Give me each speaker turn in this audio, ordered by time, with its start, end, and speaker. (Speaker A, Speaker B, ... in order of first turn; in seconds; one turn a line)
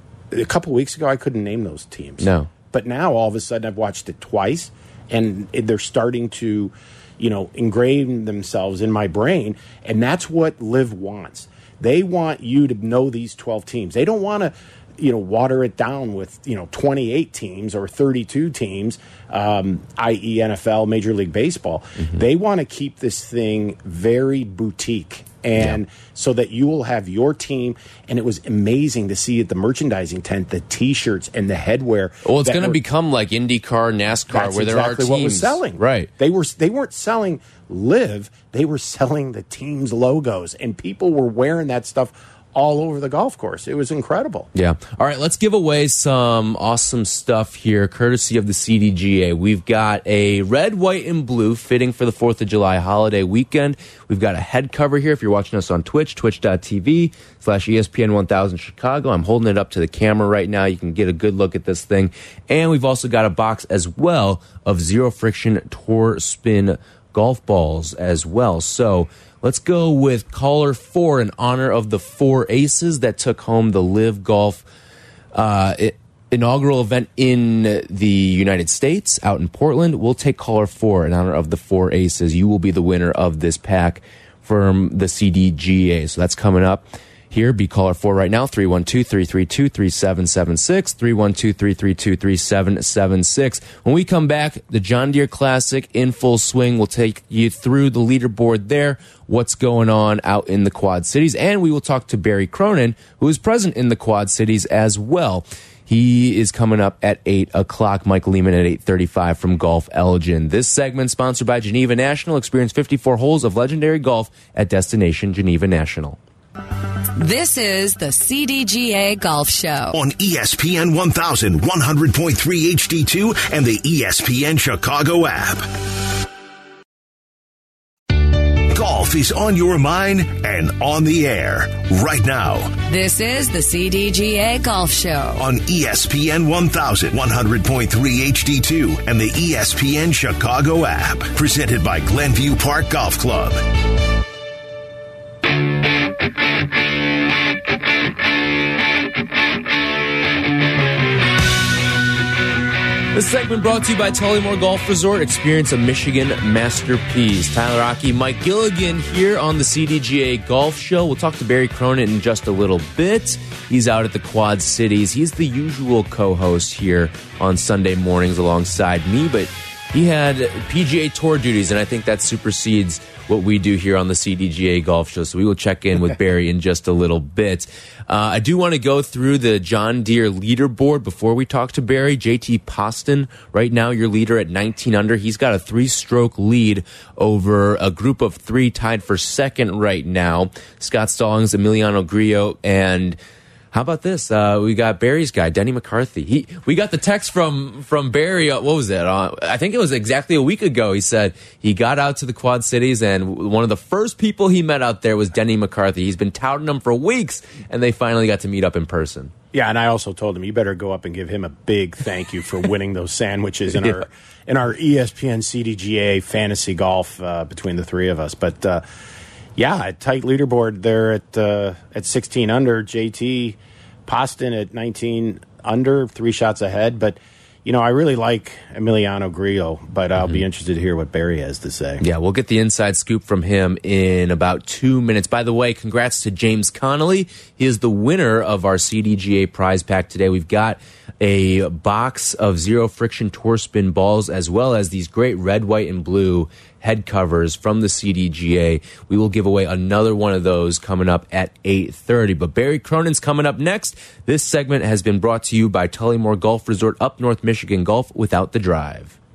Speaker A: 0.3-32.8
Speaker B: 2.2-2.5
Speaker B: 32.2-36.1
Speaker A: 34.3-44.5
Speaker B: 44.5-74.7
Speaker B: 75.3-116.2
Speaker C: 117.2-120.0
Speaker D: 119.9-125.7
Speaker D: 128.7-132.8
Speaker C: 132.9-135.4
Speaker D: 135.4-143.6
Speaker B: 153.1-193.2
Speaker B: 193.7-209.3
Speaker A: 209.5-218.8
Speaker A: 219.6-232.0
Speaker B: 232.0-259.2